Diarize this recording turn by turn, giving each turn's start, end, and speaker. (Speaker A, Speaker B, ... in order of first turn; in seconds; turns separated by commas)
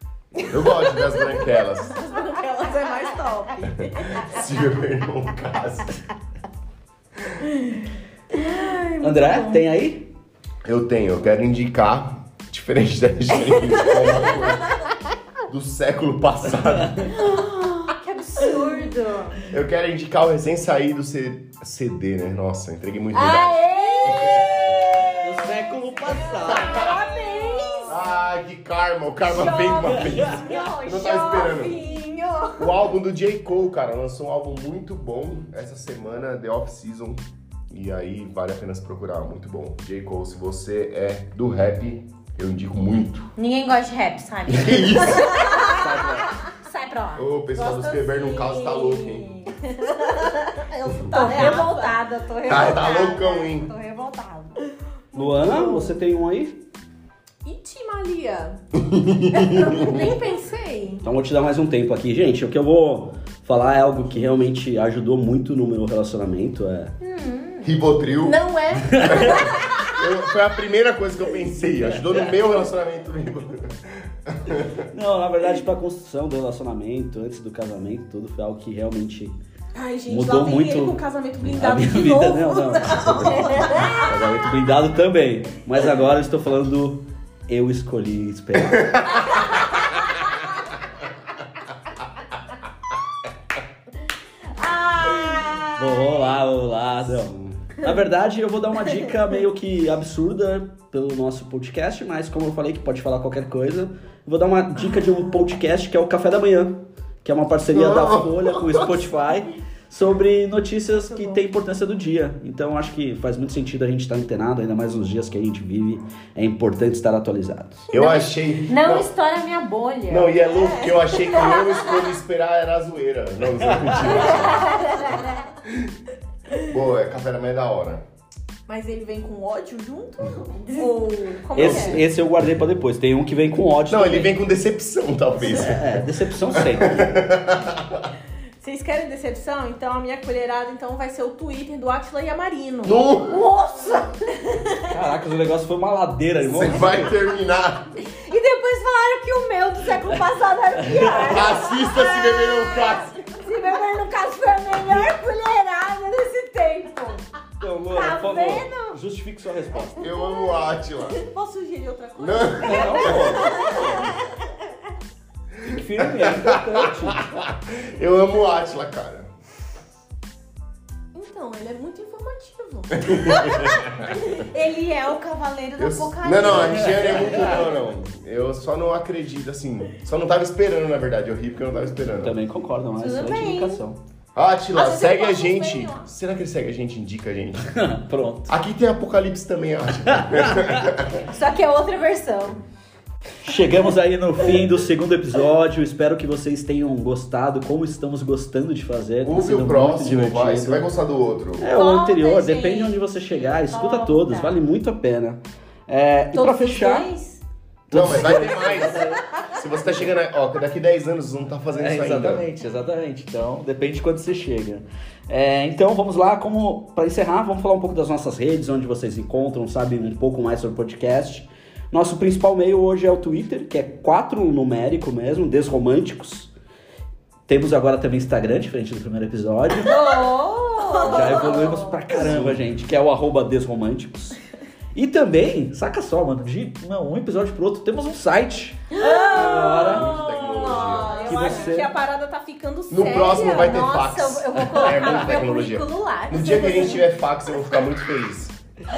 Speaker A: 0.5-2.0, Speaker B: 0.5-4.3, Speaker A: 4.0-6.0, Speaker B: 7.3-9.6, Speaker C: 9.0-10.1, Speaker A: 10.6-14.8, Speaker B: 13.8-14.1, Speaker A: 15.5-17.2, Speaker C: 16.8-17.1, Speaker D: 17.1-19.4, Speaker B: 17.4-17.6, Speaker B: 18.4-18.9, Speaker A: 19.5-24.4, Speaker D: 23.1-25.5, Speaker B: 23.8-24.4, Speaker C: 25.2-26.9, Speaker D: 26.0-28.0, Speaker B: 26.1-28.0, Speaker A: 27.9-31.8, Speaker D: 29.3-32.6, Speaker C: 29.9-30.4, Speaker B: 31.3-32.1, Speaker A: 32.6-43.3, Speaker D: 43.4-47.4, Speaker A: 44.5-45.6, Speaker B: 45.4-45.8, Speaker C: 45.7-46.4, Speaker A: 47.2-49.3, Speaker B: 47.6-52.0, Speaker D: 49.6-54.6, Speaker A: 52.5-53.7, Speaker B: 55.1-56.0, Speaker C: 55.1-56.6, Speaker B: 57.4-58.6, Speaker A: 58.8-60.0, Speaker B: 59.3-61.0, Speaker C: 61.0-66.9, Speaker D: 67.0-67.8, Speaker A: 67.6-68.4, Speaker B: 68.2-70.0, Speaker C: 68.8-69.5, Speaker A: 69.9-74.9, Speaker C: 72.0-72.3, Speaker C: 74.9-79.4, Speaker B: 79.7-84.1, Speaker C: 80.1-89.4, Speaker D: 83.4-84.1, Speaker D: 94.6-96.3, Speaker C: 95.8-117.9, Speaker A: 107.7-109.1, Speaker B: 111.1-111.4, Speaker A: 117.9-119.1, Speaker D: 117.9-120.4, Speaker A: 120.1-124.8, Speaker B: 120.5-121.7, Speaker C: 123.8-124.2, Speaker D: 124.2-125.5, Speaker A: 126.6-128.0, Speaker B: 128.7-132.1, Speaker D: 130.6-130.9, Speaker C: 131.6-134.4, Speaker D: 131.6-132.0, Speaker A: 133.9-138.1, Speaker C: 135.4-137.2, Speaker B: 138.6-143.3, Speaker A: 142.8-143.4, Speaker D: 143.3-144.1, Speaker C: 144.9-147.1, Speaker A: 146.4-147.9, Speaker D: 148.1-157.2, Speaker C: 150.9-151.4, Speaker A: 151.2-153.2, Speaker C: 157.6-160.1, Speaker D: 157.9-159.0, Speaker A: 159.9-161.2, Speaker D: 160.1-160.5, Speaker B: 161.1-164.0, Speaker A: 162.2-163.5, Speaker C: 162.6-164.1, Speaker D: 162.9-164.3, Speaker C: 165.6-167.4, Speaker A: 166.0-169.3, Speaker B: 171.1-173.7, Speaker A: 173.0-174.1, Speaker D: 173.3-177.4, Speaker A: 175.8-182.4, Speaker C: 176.4-177.7, Speaker C: 182.2-184.0, Speaker D: 183.0-183.8, Speaker A: 184.3-187.7, Speaker D: 184.8-186.1, Speaker C: 187.7-188.5, Speaker A: 188.5-191.3, Speaker C: 190.1-190.9, Speaker D: 191.3-192.6, Speaker C: 193.4-200.8, Speaker A: 199.2-201.7, Speaker C: 201.6-207.1, Speaker D: 201.7-204.6, Speaker D: 206.3-207.4, Speaker C: 207.9-209.3, Speaker A: 207.9-212.5, Speaker C: 211.8-226.5, Speaker C: 227.5-230.0, Speaker D: 229.8-232.2, Speaker B: 230.9-231.8, Speaker C: 231.0-234.4, Speaker A: 232.3-232.6, Speaker C: 234.9-240.2, Speaker B: 238.9-243.8, Speaker D: 239.0-239.9, Speaker A: 239.8-241.3, Speaker D: 240.4-241.8, Speaker C: 241.2-241.9, Speaker A: 242.9-248.6, Speaker D: 243.2-247.1